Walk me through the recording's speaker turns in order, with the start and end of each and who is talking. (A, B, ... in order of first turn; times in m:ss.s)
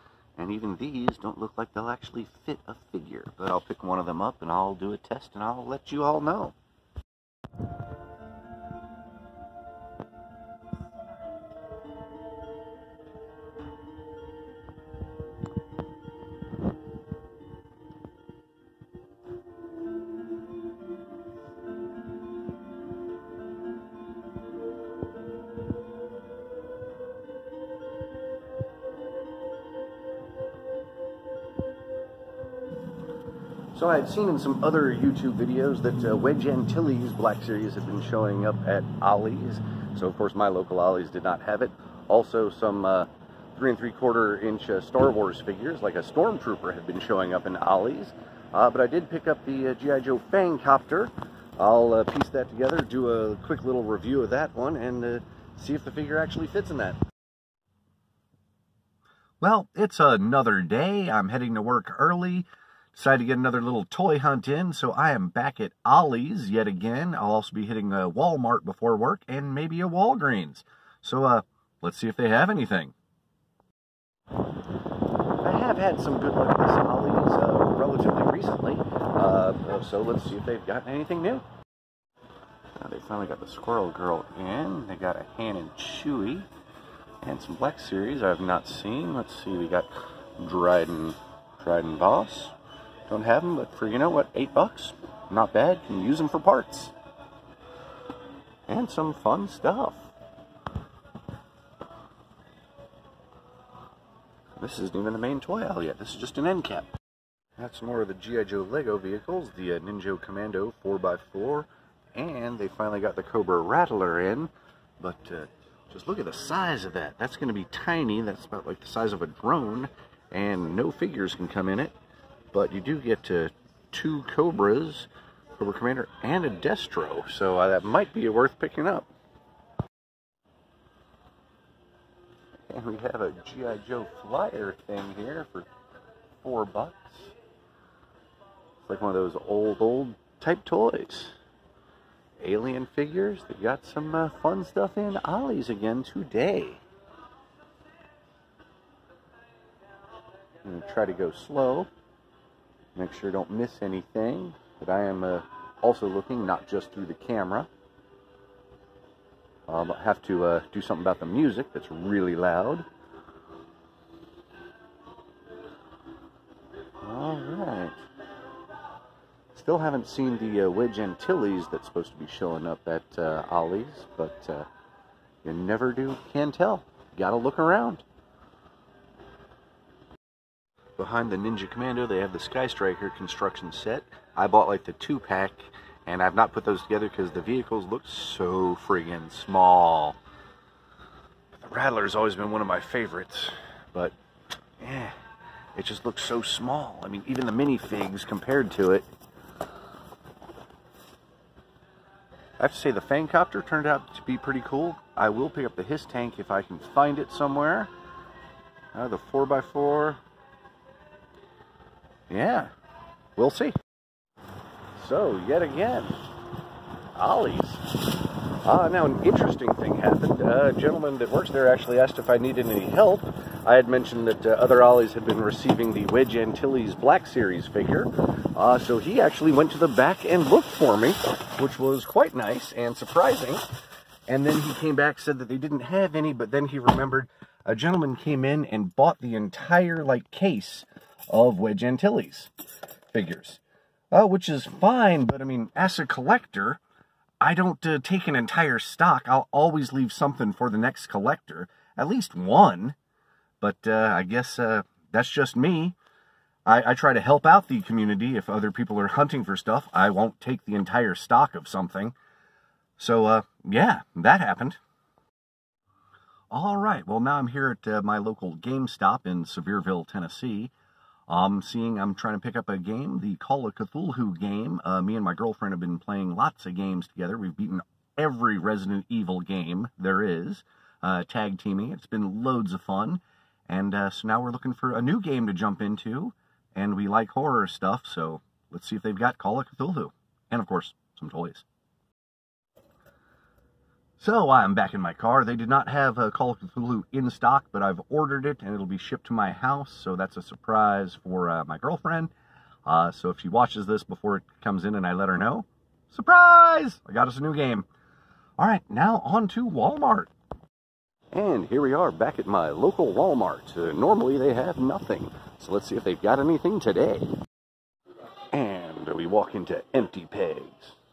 0:00.4-0:06.5 A
0:33.7-0:57.0 A
0:59.4-1:12.9 A
1:15.4-1:21.4 A
1:22.8-1:26.5 A
1:27.2-1:32.5 A
1:33.1-1:36.9 A
1:38.7-1:40.1 A
1:44.6-1:46.9 A
1:47.6-2:01.9 A
2:02.5-2:09.1 A
2:12.7-2:15.7 A
2:16.4-2:17.3 A
2:18.8-2:21.4 A
2:22.4-2:26.8 A
2:30.6-2:31.9 A
2:32.9-2:37.7 A
2:39.7-2:42.8 A
2:47.0-2:48.0 A
2:49.5-2:54.7 A
2:55.4-2:58.0 A
3:01.0-3:10.2 A
3:11.5-3:14.2 A
3:14.8-3:15.1 A
3:15.7-3:19.1 A
3:22.6-3:27.9 A
3:28.9-3:30.2 A
3:32.3-3:32.7 A
3:33.4-3:33.8 A
3:34.9-3:36.2 A
3:37.1-3:38.0 A
3:38.6-3:53.6 A
3:54.3-4:02.5 A
4:03.1-4:06.8 A
4:07.4-4:13.0 A
4:13.6-4:16.0 A
4:16.6-4:22.1 A
4:23.0-4:24.8 A
4:26.5-4:30.7 A
4:31.3-4:51.6 A
4:54.2-5:02.3 A
5:02.8-5:07.8 A
5:08.6-5:10.3 A
5:11.3-5:17.3 A
5:18.5-5:21.0 A